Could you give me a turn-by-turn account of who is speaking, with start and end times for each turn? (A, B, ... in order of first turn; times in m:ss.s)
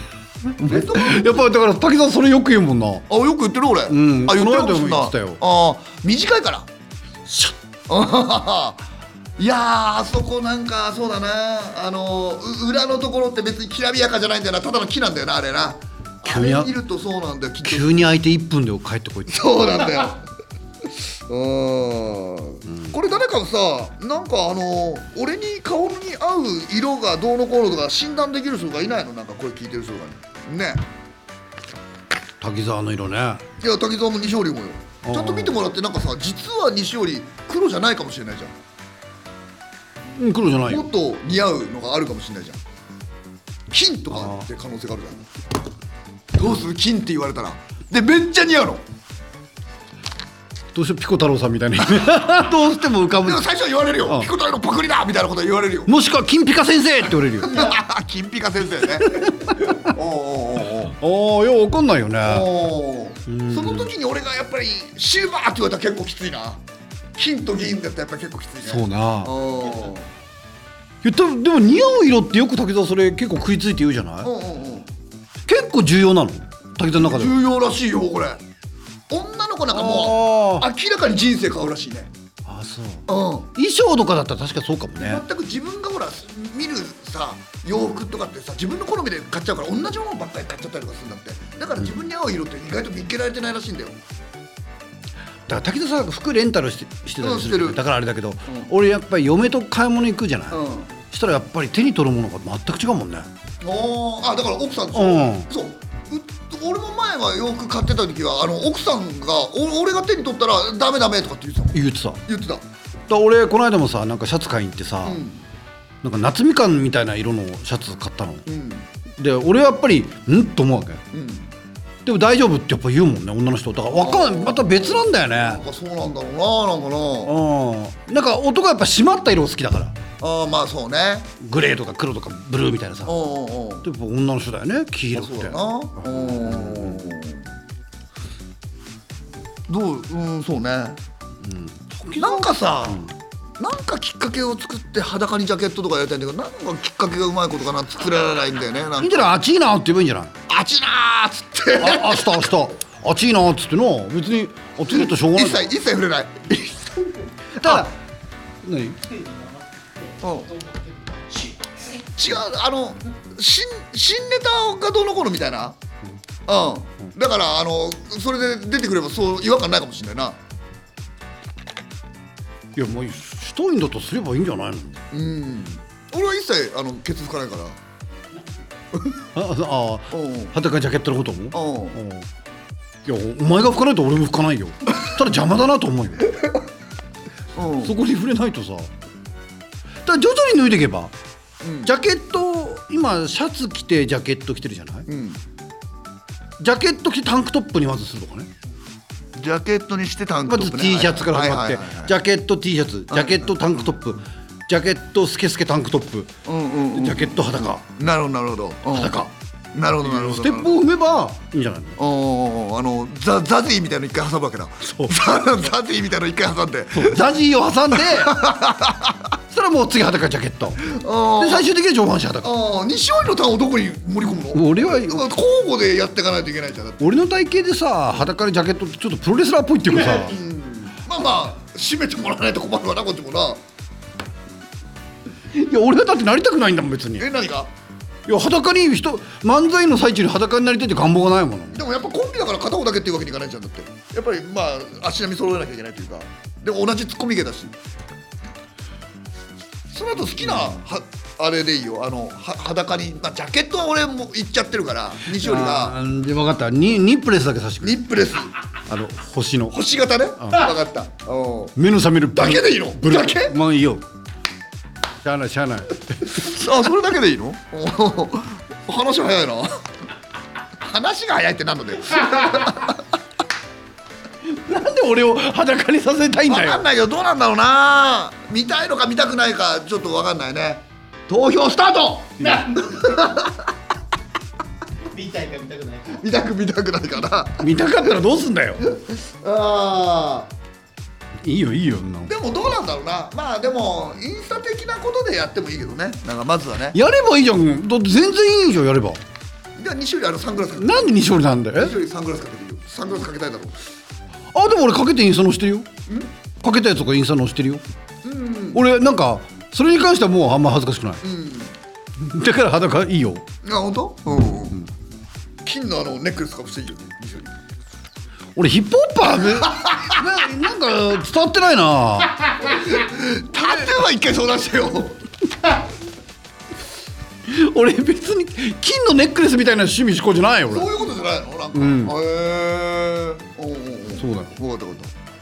0:00.6-0:03.0 A
0:00.6-0:01.4 B
0:03.1-0:06.7 B
0:03.9-0:05.4 A
0:07.3-0:07.6 A
0:07.9-0:08.8 B
0:09.4-0:18.0 B
0:16.2-0:16.7 A
0:17.6-0:19.7 A
0:19.3-0:20.2 B
0:21.3-0:30.8 B
0:22.7-0:22.9 A
0:32.4-0:33.4 A
0:33.6-0:38.6 B
0:35.0-0:35.6 A
0:40.2-0:40.8 A
0:40.6-0:42.6 B
0:43.7-0:45.3 B
0:44.1-0:44.4 A
0:46.4-0:48.8 B
0:50.8-0:53.4 A
0:53.2-0:55.9 B
0:55.9-0:57.7 A
0:57.4-1:00.9 B
0:59.0-0:59.9 A
1:00.8-1:02.5 A
1:02.2-1:06.6 B
1:03.3-1:03.9 A
1:07.2-1:10.1 B
1:08.7-1:09.3 A
1:11.0-1:14.3 A
1:14.2-1:14.9 B
1:15.5-1:17.4 A
1:17.0-1:18.4 B
1:19.1-1:22.1 B
1:19.7-1:20.7 A
1:22.4-1:25.2 A
1:23.1-1:23.5 B
1:25.0-1:34.0 B
1:35.5-1:43.3 A
1:37.2-1:37.8 B
1:40.5-1:40.9 B
1:43.6-1:52.6 B
1:44.9-1:45.5 A
1:51.7-1:52.2 A
1:53.1-1:55.2 A
1:55.0-1:55.4 B
1:56.0-1:58.4 A
1:58.5-1:58.9 B
1:59.2-2:01.0 A
2:01.1-2:01.5 B
2:02.0-2:05.6 A
2:04.0-2:07.3 B
2:07.2-2:10.0 A
2:10.2-2:11.3 B
2:11.4-2:13.2 A
2:13.1-2:13.9 B
2:13.8-2:17.0 A
2:15.1-2:17.5 B
2:19.7-2:21.0 B
2:21.4-2:23.1 A
2:22.2-2:23.1 B
2:23.6-2:29.4 B
2:29.0-2:30.3 A
2:30.5-2:32.6 B
2:31.8-2:35.7 A
2:34.9-2:37.9 B
2:37.6-2:38.0 A
2:38.6-2:39.0 A
2:39.0-2:42.0 C
2:40.2-2:40.5 B
2:42.0-2:45.8 B
2:46.5-2:50.4 B
2:52.8-2:55.1 A
2:55.1-2:57.8 B
2:59.3-3:02.3 A
3:00.1-3:00.5 B
3:01.5-3:02.0 B
3:03.1-3:06.3 A
3:07.6-3:08.0 B
3:07.8-3:08.9 A
3:10.0-3:11.1 A
3:11.6-3:11.9 B
3:11.8-3:15.1 A
3:15.1-3:15.4 B
3:16.6-3:18.5 A
3:19.4-3:22.2 B
3:20.5-3:26.3 A
3:23.1-3:23.5 B
3:26.4-3:27.4 B
3:26.9-3:27.9 A
3:28.0-3:30.8 B
3:28.9-3:29.3 A
3:30.0-3:32.0 A
3:32.0-3:37.4 B
3:36.9-3:38.6 A
3:37.9-3:39.3 B
3:39.5-3:42.5 A
3:40.8-3:41.7 B
3:42.4-3:47.0 B
3:44.5-3:45.3 A
3:47.0-3:50.4 A
3:50.0-3:53.6 B
3:55.5-3:57.3 A
3:57.2-3:57.7 B
3:58.3-4:01.8 A
4:01.7-4:07.8 B
4:09.9-4:16.0 B
4:15.2-4:18.0 A
4:17.8-4:18.5 B
4:18.9-4:19.8 A
4:19.7-4:21.8 B
4:20.4-4:20.7 A
4:21.8-4:24.0 A
4:22.3-4:23.6 B
4:25.2-4:26.4 A
4:26.3-4:29.8 B
4:30.8-4:33.0 B
4:34.4-4:36.8 A
4:36.5-4:43.7 B
4:42.4-4:43.1 C
4:45.1-4:46.2 C
4:46.1-4:47.7 B
4:47.6-4:48.8 A
4:48.8-4:50.5 B
4:51.4-4:52.3 A
4:52.3-4:57.0 B
4:56.9-4:59.2 A
4:59.8-5:01.2 B
5:00.8-5:02.0 A
5:01.7-5:03.8 B
5:04.5-5:05.9 A
5:06.6-5:07.8 A
5:08.2-5:08.8 B
5:08.7-5:11.2 A
5:11.2-5:11.8 B
5:12.2-5:13.4 A
5:13.6-5:14.8 B
5:15.6-5:17.5 B
5:18.6-5:22.5 A
5:19.4-5:20.4 B
5:22.6-5:25.2 B
5:27.5-5:30.9 A
5:30.7-5:35.1 B
5:31.7-5:32.2 A
5:34.2-5:34.6 A